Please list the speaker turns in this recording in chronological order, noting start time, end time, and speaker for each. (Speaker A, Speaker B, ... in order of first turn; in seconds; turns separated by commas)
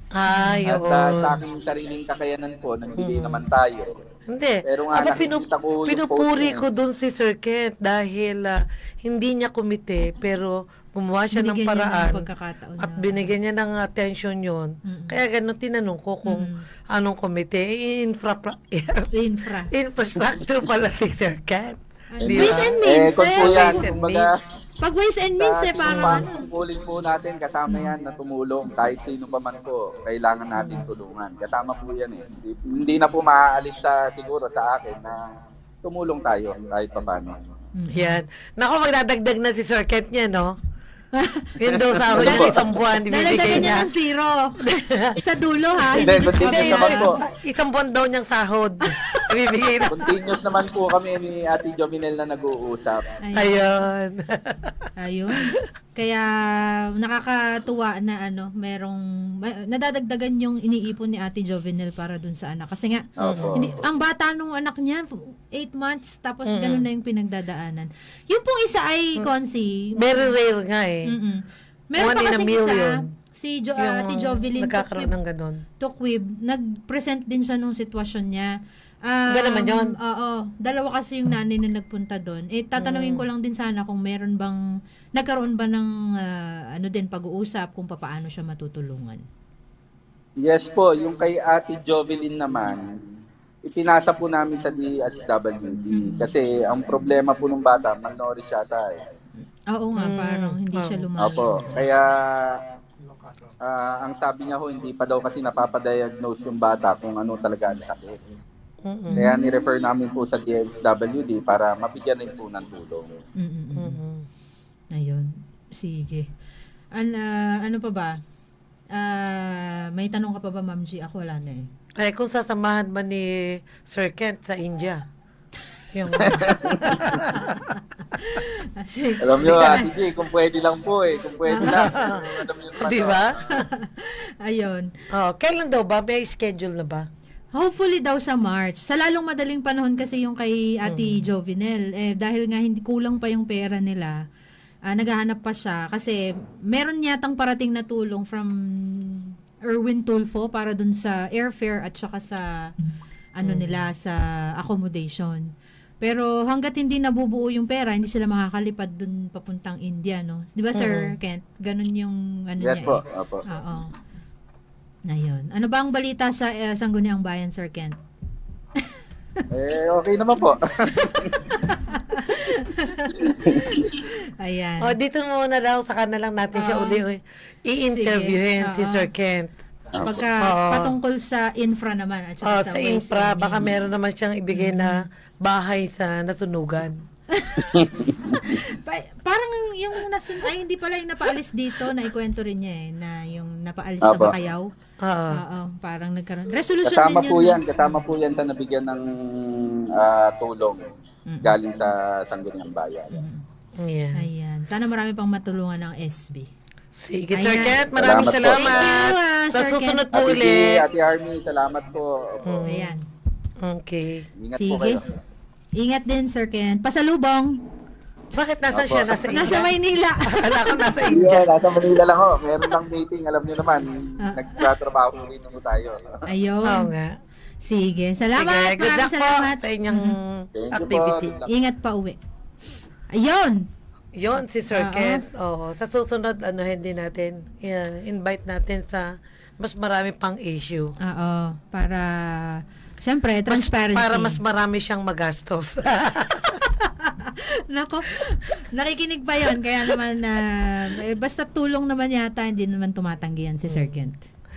Speaker A: 0.1-1.4, Speaker B: 0.3-0.7, Speaker C: 0.7-3.9, Speaker A: 3.0-3.4, Speaker A: 4.3-12.2, Speaker C: 4.7-6.6, Speaker B: 11.3-13.3, Speaker A: 12.8-19.1, Speaker B: 14.8-15.2, Speaker B: 16.2-16.6, Speaker B: 19.1-19.7, Speaker A: 19.7-24.3, Speaker B: 22.1-23.8, Speaker C: 22.2-24.4, Speaker B: 24.8-26.3, Speaker C: 25.4-35.2, Speaker A: 25.9-26.3, Speaker B: 27.7-27.9, Speaker A: 30.6-30.9, Speaker C: 35.8-37.3, Speaker B: 37.8-38.2, Speaker A: 37.9-40.6, Speaker B: 41.2-41.5, Speaker A: 41.6-43.9, Speaker C: 41.9-42.6, Speaker B: 42.1-44.6, Speaker A: 44.9-45.2, Speaker B: 45.2-47.2, Speaker C: 46.0-47.2, Speaker A: 46.0-50.0, Speaker C: 49.9-53.0, Speaker B: 53.2-53.7, Speaker A: 53.4-54.7, Speaker B: 55.0-56.3, Speaker B: 57.0-70.3, Speaker C: 63.2-63.8, Speaker A: 66.5-66.9, Speaker A: 70.0-71.0, Speaker B: 71.1-75.1, Speaker A: 72.0-73.1, Speaker A: 73.8-75.6, Speaker B: 75.8-78.5, Speaker B: 79.1-84.6, Speaker A: 79.3-80.0, Speaker A: 82.8-83.3, Speaker B: 85.2-89.2, Speaker C: 90.4-92.8, Speaker C: 93.7-98.9, Speaker B: 95.9-96.3, Speaker B: 99.7-101.8, Speaker A: 100.0-101.2, Speaker C: 101.2-102.5, Speaker C: 103.6-108.2, Speaker A: 108.9-109.3, Speaker B: 109.1-109.4, Speaker C: 109.2-113.1, Speaker B: 113.4-114.0, Speaker A: 113.8-114.3, Speaker B: 114.9-116.3, Speaker B: 117.0-118.2, Speaker B: 119.0-121.7, Speaker A: 122.0-125.0, Speaker A: 125.9-127.5, Speaker C: 126.3-127.2, Speaker B: 127.3-129.9, Speaker C: 129.2-133.4, Speaker B: 131.5-131.9, Speaker A: 131.6-132.2, Speaker A: 132.8-133.5, Speaker B: 133.5-134.9, Speaker A: 135.1-137.1, Speaker B: 137.6-144.1, Speaker A: 140.9-141.3, Speaker B: 144.9-146.2, Speaker B: 146.7-148.5, Speaker B: 149.0-152.4, Speaker B: 153.4-155.4, Speaker A: 153.4-153.8, Speaker B: 156.0-163.9, Speaker A: 160.8-161.1, Speaker C: 162.6-163.4, Speaker B: 165.1-167.9, Speaker C: 169.5-171.3, Speaker B: 171.2-174.9, Speaker C: 173.3-173.8, Speaker A: 174.8-179.5, Speaker B: 176.5-177.0, Speaker B: 177.9-179.1, Speaker B: 180.0-183.7, Speaker A: 180.4-180.9, Speaker A: 182.4-186.9, Speaker B: 184.5-185.1, Speaker B: 187.4-187.8, Speaker C: 187.7-188.4, Speaker B: 188.4-194.7, Speaker C: 194.0-194.3, Speaker A: 195.0-195.4, Speaker B: 195.3-198.0, Speaker C: 196.8-200.8, Speaker B: 201.3-201.6, Speaker C: 201.4-203.2, Speaker B: 203.1-203.4, Speaker A: 203.8-204.3, Speaker B: 204.2-206.5, Speaker A: 207.0-210.8, Speaker B: 207.3-210.1, Speaker C: 208.0-208.8, Speaker C: 210.1-212.6, Speaker A: 212.4-212.9, Speaker B: 212.7-213.1, Speaker A: 213.6-214.2, Speaker C: 214.4-215.0, Speaker B: 214.5-215.0, Speaker B: 215.8-217.6, Speaker A: 218.3-219.7, Speaker C: 218.7-219.1, Speaker B: 219.3-221.1, Speaker A: 220.2-221.5, Speaker C: 221.1-226.2, Speaker B: 224.2-224.6, Speaker B: 226.3-226.9, Speaker A: 226.7-227.2, Speaker B: 227.6-230.2, Speaker A: 228.4-231.3, Speaker C: 230.6-231.5, Speaker B: 231.5-232.2, Speaker B: 233.1-233.7, Speaker A: 234.2-240.9, Speaker B: 234.7-235.2, Speaker B: 241.0-244.4, Speaker A: 243.5-246.6, Speaker B: 247.0-254.2